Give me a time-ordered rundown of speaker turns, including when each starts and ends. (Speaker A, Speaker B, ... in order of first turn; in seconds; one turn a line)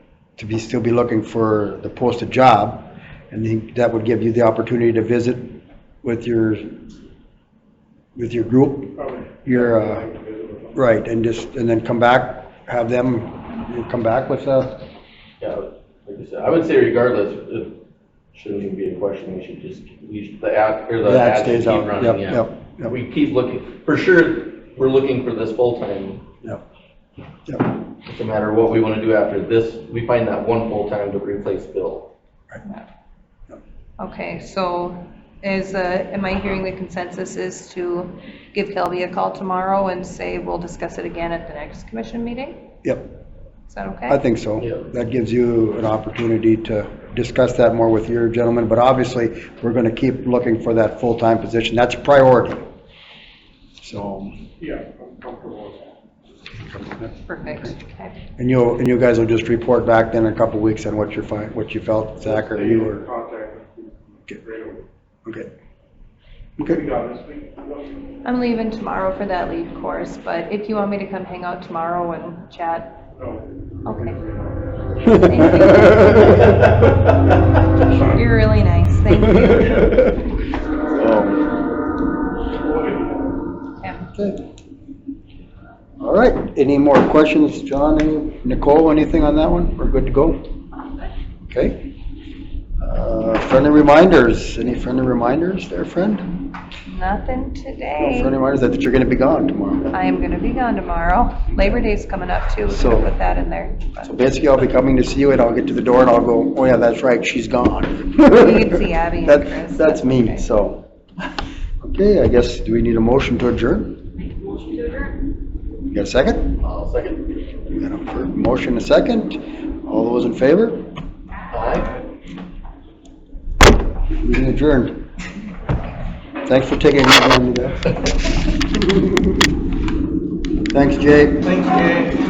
Speaker A: 0.4-6.8
Speaker A: 8.2-10.1
Speaker B: 8.9-10.8
Speaker A: 10.7-14.8
Speaker C: 15.4-17.8
Speaker C: 18.3-26.2
Speaker A: 21.0-22.9
Speaker C: 28.1-32.1
Speaker D: 34.0-42.6
Speaker D: 43.7-44.2
Speaker A: 44.1-52.6
Speaker A: 53.8-54.4
Speaker B: 54.6-55.9
Speaker A: 56.7-57.1
Speaker D: 57.2-58.1
Speaker A: 58.4-63.0
Speaker B: 62.2-64.8
Speaker A: 65.2-65.5
Speaker B: 66.6-67.9
Speaker D: 68.2-73.0
Speaker B: 73.2-73.5
Speaker D: 73.8-74.2
Speaker B: 74.1-74.6
Speaker A: 75.0-76.4
Speaker D: 75.1-76.5
Speaker D: 77.9-79.9
Speaker A: 79.6-80.1
Speaker A: 80.9-81.4
Speaker B: 82.6-83.3
Speaker D: 83.8-84.1
Speaker A: 84.1-84.4
Speaker A: 86.0-90.4
Speaker A: 91.5-91.8
Speaker A: 92.8-96.3
Speaker D: 96.9-98.3
Speaker A: 98.0-99.9
Speaker D: 99.9-104.1
Speaker A: 102.7-103.1
Speaker A: 104.0-110.8
Speaker D: 108.3-110.4
Speaker A: 111.8-114.0
Speaker A: 115.9-116.6
Speaker C: 116.6-117.3
Speaker A: 117.7-120.8
Speaker C: 121.5-122.0
Speaker A: 124.2-125.0
Speaker A: 126.5-128.0
Speaker A: 130.7-131.8